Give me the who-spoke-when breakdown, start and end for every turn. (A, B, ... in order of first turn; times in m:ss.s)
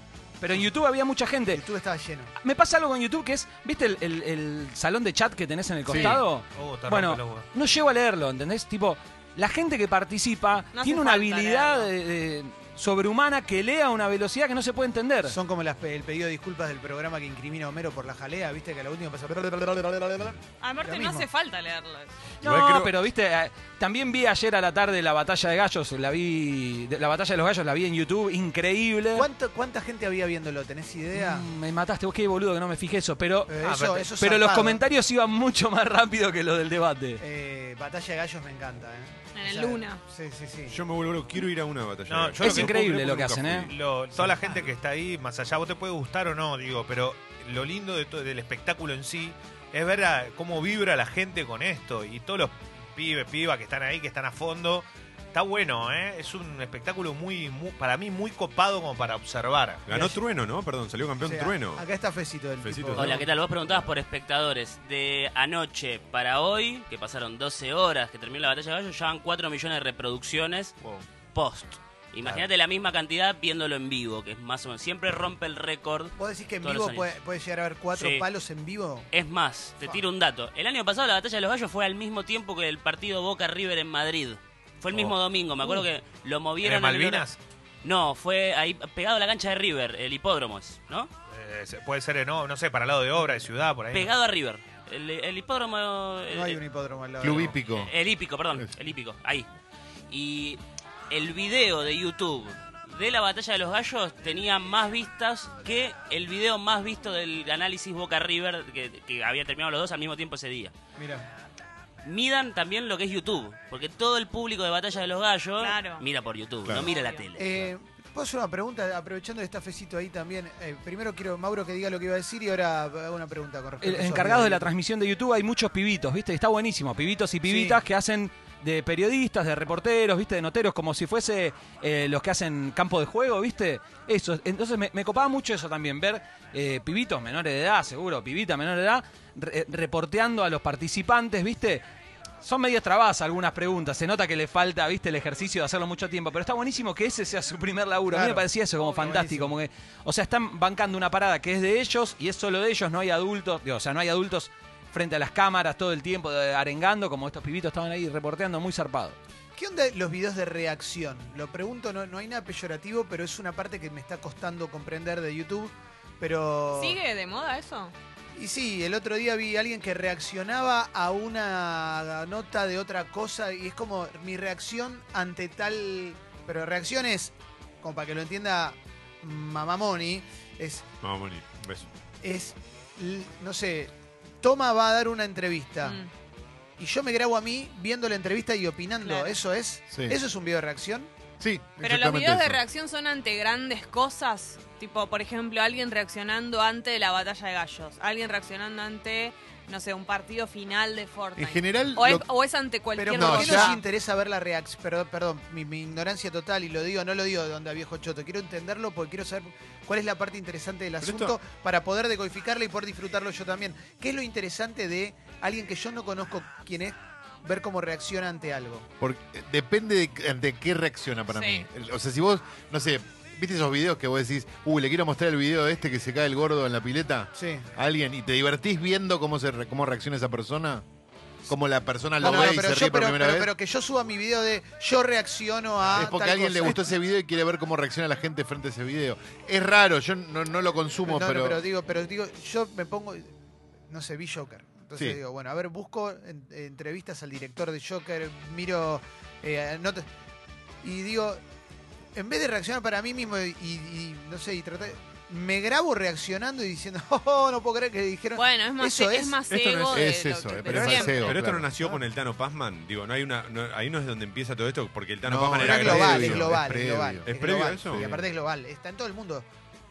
0:00.4-0:01.6 A
0:01.5-0:02.3 B
0:02.4-0:15.3 A
0:05.9-0:06.2 C
0:06.0-0:07.5 D
0:10.7-0:11.9 E
0:15.3-0:21.2 B
0:20.6-0:22.1 E
0:22.4-0:29.3 A
0:22.4-0:22.9 F
0:29.1-0:31.4 B
0:31.1-0:33.5 A
0:33.5-0:34.8 B
0:33.6-0:34.0 D
0:34.1-0:37.2 A
0:37.2-0:40.8 B
0:39.3-0:40.0 E
0:40.7-0:44.6 F
0:42.1-0:42.8 D
0:42.4-0:43.7 A
0:43.7-0:59.8 D
0:59.9-1:01.8 F
0:59.9-1:00.2 B
1:01.2-1:03.2 B
1:02.6-1:03.8 F
1:02.9-1:10.7 G
1:11.3-1:17.1 G
1:16.2-1:19.1 B
1:17.9-1:18.2 G
1:19.1-1:27.3 G
1:26.6-1:27.4 D
1:27.8-1:31.1 G
1:31.3-1:34.1 D
1:33.9-1:36.6 G
1:36.3-1:37.6 B
1:37.2-1:37.9 C
1:37.7-1:39.5 G
1:40.1-1:50.7 G
1:51.0-1:51.2 B
1:52.0-1:57.7 G
1:55.6-1:56.0 E
1:56.6-1:56.9 C
1:56.8-1:57.3 E
1:57.4-2:04.7 B
2:03.8-2:21.8 A
2:07.4-2:07.8 B
2:22.4-2:39.2 A
2:28.1-2:29.6 B
2:39.6-2:47.0 B
2:46.7-2:47.9 E
2:48.3-3:00.8 B
3:01.0-3:01.9 F
3:02.2-3:06.0 B
3:05.8-3:06.1 E
3:06.8-3:11.1 B
3:09.0-3:09.4 E
3:09.9-3:10.2 C
3:11.4-3:12.6 C
3:11.8-3:23.8 E
3:21.4-3:22.2 C
3:23.0-3:38.9 B
3:23.1-3:23.8 C
3:39.0-3:50.8 C
3:41.3-3:41.6 E
3:47.4-3:47.7 B
3:51.5-3:53.5 C
3:52.2-3:56.9 B
3:55.9-4:01.6 C
4:01.0-4:03.3 B
4:03.9-4:10.1 B
4:10.8-4:11.4 B
4:12.1-4:19.4 B
4:18.3-4:21.3 E
4:19.5-4:26.6 F
4:19.9-4:21.7 C
4:25.2-4:27.3 C
4:25.6-4:29.4 B
4:27.2-4:28.1 F
4:27.9-4:28.2 C